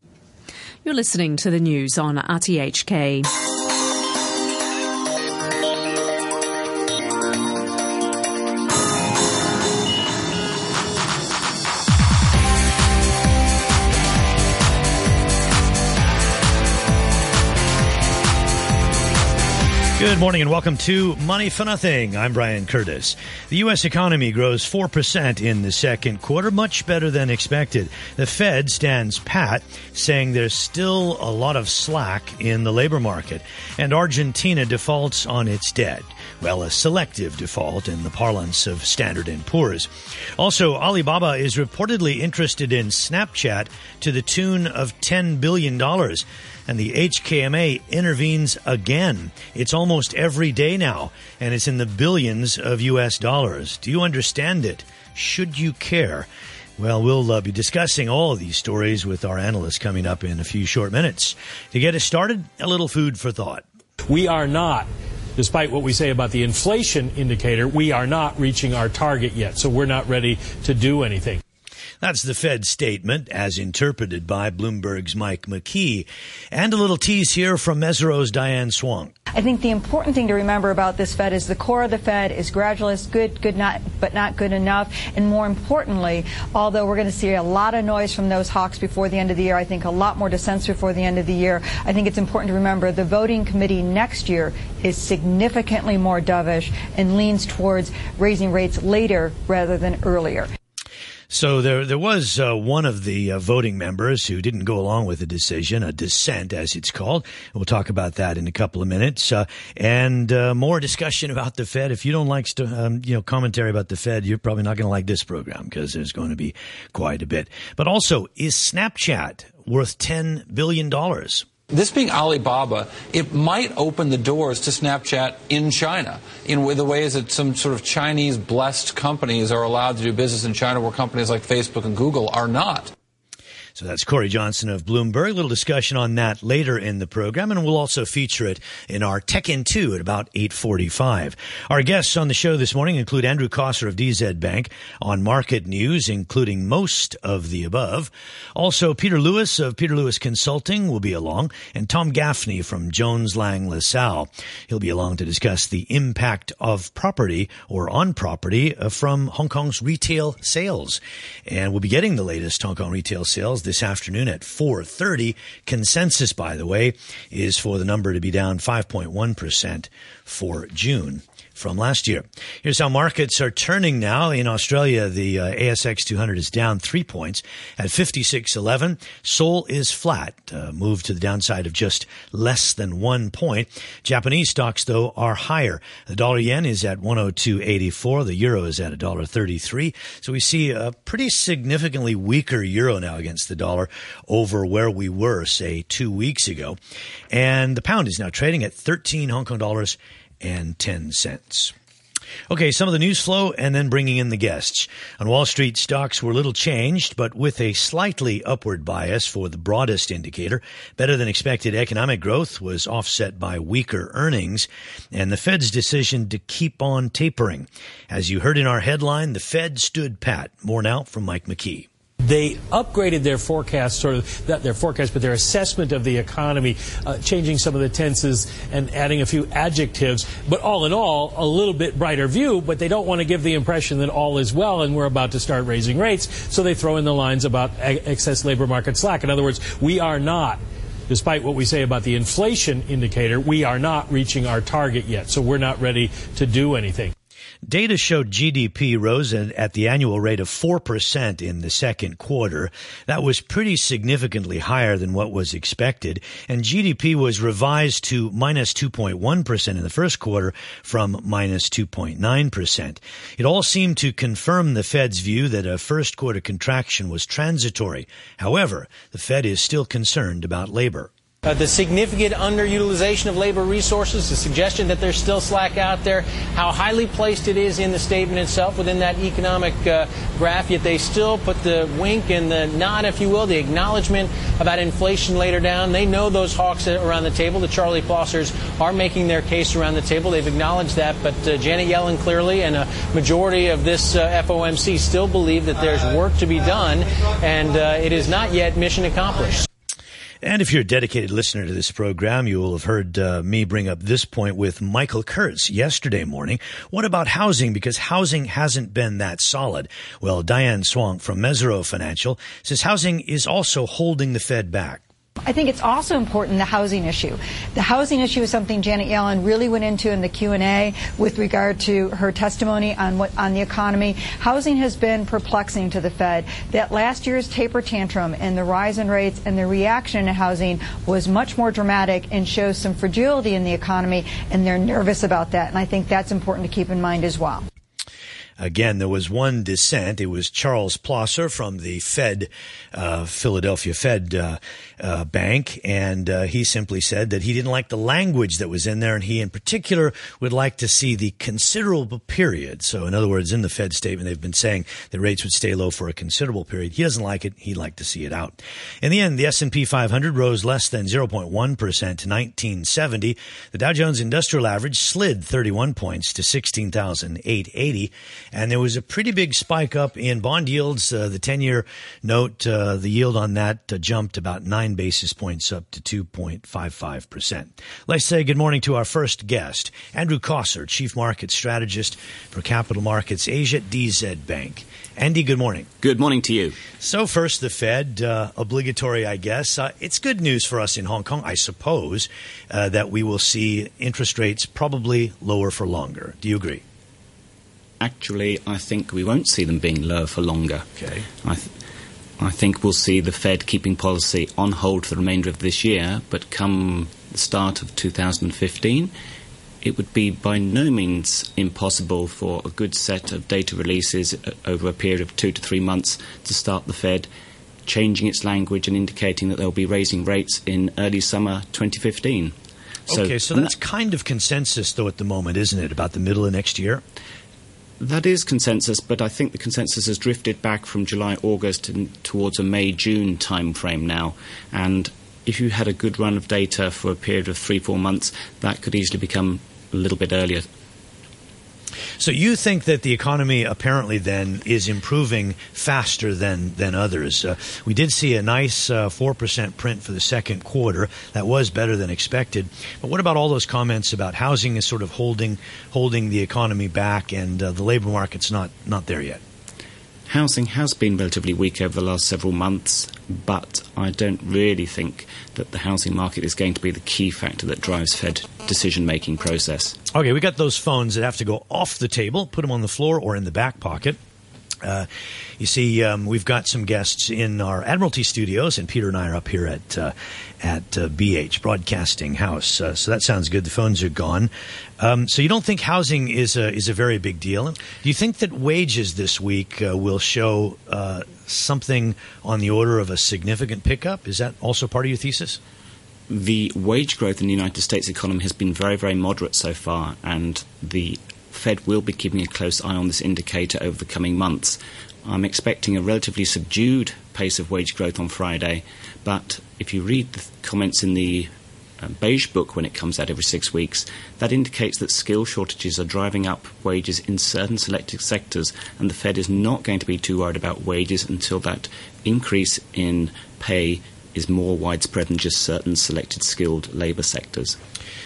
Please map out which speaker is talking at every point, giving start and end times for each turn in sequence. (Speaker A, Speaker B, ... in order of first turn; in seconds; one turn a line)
Speaker A: 0.8-3.3
Speaker B: 20.0-63.6
Speaker C: 64.1-71.4
Speaker B: 72.0-79.1
Speaker D: 79.3-100.5
Speaker B: 101.3-121.5
Speaker E: 121.7-132.9
Speaker B: 133.8-196.8
Speaker B: 197.3-201.7
Speaker B: 202.5-221.9
Speaker C: 222.2-247.1
Speaker B: 247.7-271.1
Speaker F: 271.4-299.6
Speaker B: 300.4-315.0
Speaker D: 315.4-337.6
Speaker B: 338.6-385.9
Speaker G: 386.0-386.8
Speaker B: 387.0-396.8
Speaker G: 398.0-400.9
Speaker B: 401.0-401.2
Speaker G: 401.4-401.7
Speaker G: 402.4-409.1
Speaker G: 409.8-417.3
Speaker G: 417.9-422.5
Speaker G: 423.1-423.7
Speaker B: 423.1-427.0
Speaker G: 428.0-440.7
Speaker B: 442.2-459.4
Speaker G: 460.3-470.0
Speaker B: 470.1-474.2
Speaker B: 475.6-495.6
Speaker G: 496.3-527.8